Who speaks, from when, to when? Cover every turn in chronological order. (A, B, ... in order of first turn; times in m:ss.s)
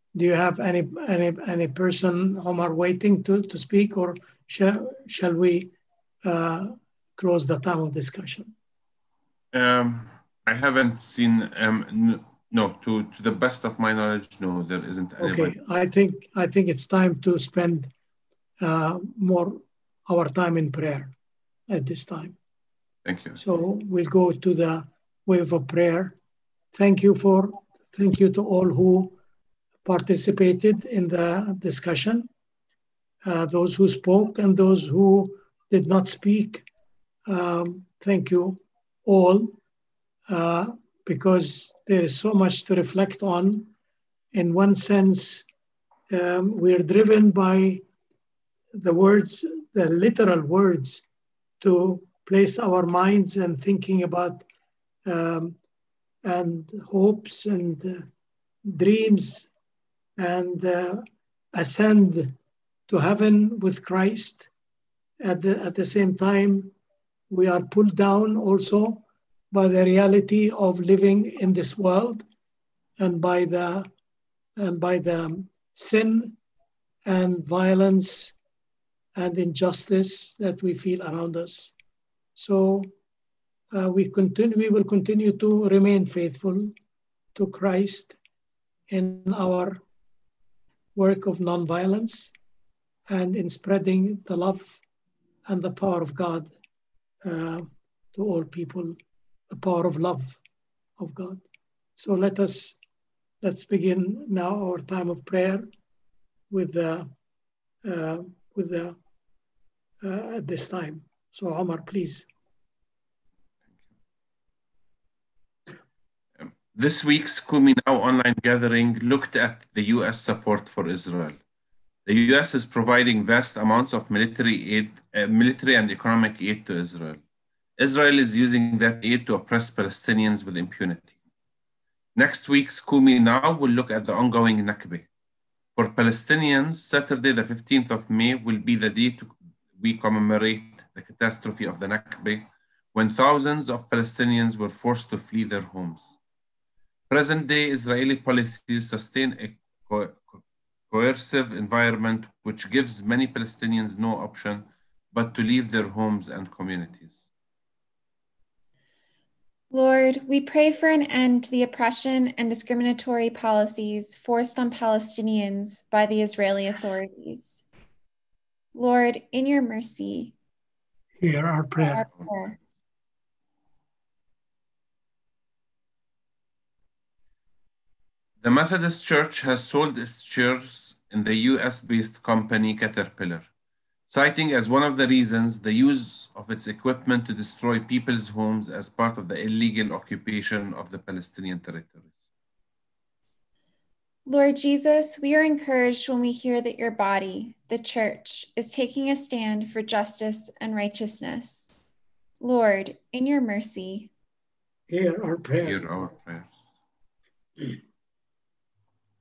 0:00.1-0:05.7 A
0:06.2-0:08.5 A
0:09.5-0:15.5 B
0:15.2-0:17.9 A
0:18.6-0:21.1 A
0:21.7-0:22.3 A
0:23.0-0:23.5 B
0:23.4-0:26.2 A
0:26.7-0:29.2 A
0:29.8-0:32.3 A
0:33.2-0:36.6 A
0:37.3-0:39.5 A
0:40.3-0:43.7 A
0:44.3-0:45.4 A
0:46.1-0:47.8 A
0:48.7-0:51.0 A
0:51.6-0:54.4 A
0:55.0-0:55.6 A
0:56.2-0:58.1 A
0:58.6-0:59.5 A
1:00.2-1:02.3 A
1:02.9-1:04.5 A
1:05.2-1:06.7 A
1:07.3-1:12.2 A
1:13.0-1:13.9 A
1:14.6-1:16.4 A
1:17.0-1:18.3 A
1:19.2-1:21.7 A
1:22.4-1:22.9 A
1:23.7-1:26.7 A
1:27.3-1:28.2 A
1:28.9-1:29.8 A
1:31.0-1:32.3 A
1:33.1-1:34.8 A
1:35.5-1:36.5 A
1:37.2-1:39.0 A
1:39.5-1:40.4 A
1:41.0-1:41.4 A
1:42.0-1:42.8 A
1:43.4-1:45.7 A
1:46.5-1:47.1 A
1:47.8-1:49.0 A
1:50.0-1:52.2 A
1:56.4-2:01.4 B
2:02.0-2:07.2 B
2:07.8-2:11.1 B
2:12.1-2:15.1 B
2:15.8-2:26.2 B
2:27.1-2:30.4 B
2:30.9-2:37.3 B
2:39.7-2:47.6 C
2:48.7-2:50.3 C
2:51.2-2:52.0 A
2:51.8-2:52.6 C
2:58.4-3:03.5 B
3:04.1-3:12.3 B
3:14.2-3:21.7 C
3:22.4-3:24.1 C
3:24.9-3:25.9 A
3:25.6-3:26.6 B